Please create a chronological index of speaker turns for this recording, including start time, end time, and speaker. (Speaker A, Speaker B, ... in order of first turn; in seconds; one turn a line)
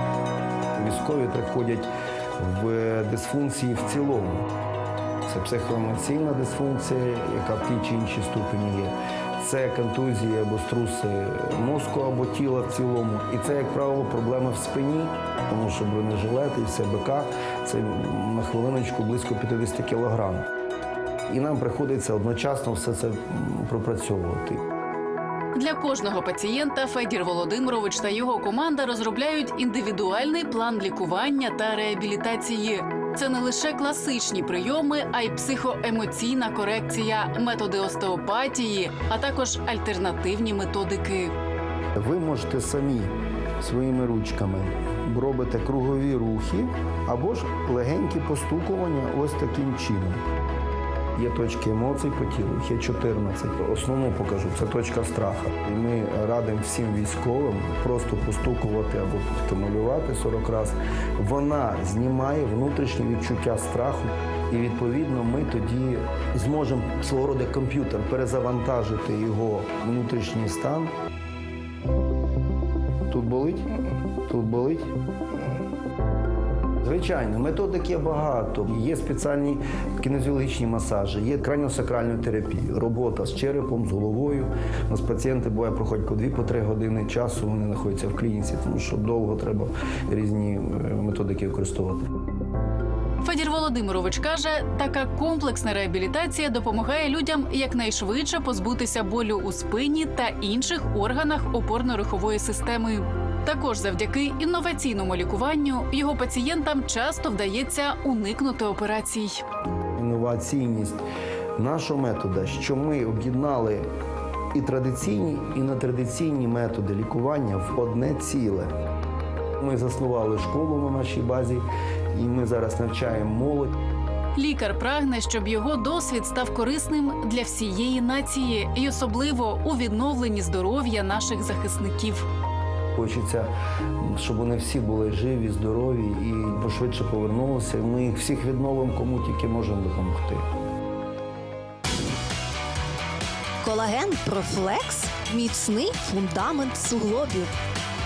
Speaker A: 0.7-4.5
Speaker A: 5.2-20.4
Speaker A: 21.3-24.6
Speaker B: 25.5-41.3
Speaker A: 42.0-50.2
Speaker A: 51.1-70.9
Speaker A: 73.1-74.9
Speaker A: 76.8-92.0
Speaker B: 93.2-109.4
Speaker A: 110.0-111.0
Speaker A: 111.5-113.8
Speaker A: 114.5-118.7
Speaker A: 119.6-123.7
Speaker B: 124.3-132.2
Speaker A: 132.9-133.5
Speaker A: 134.1-140.4
Speaker C: 143.6-147.5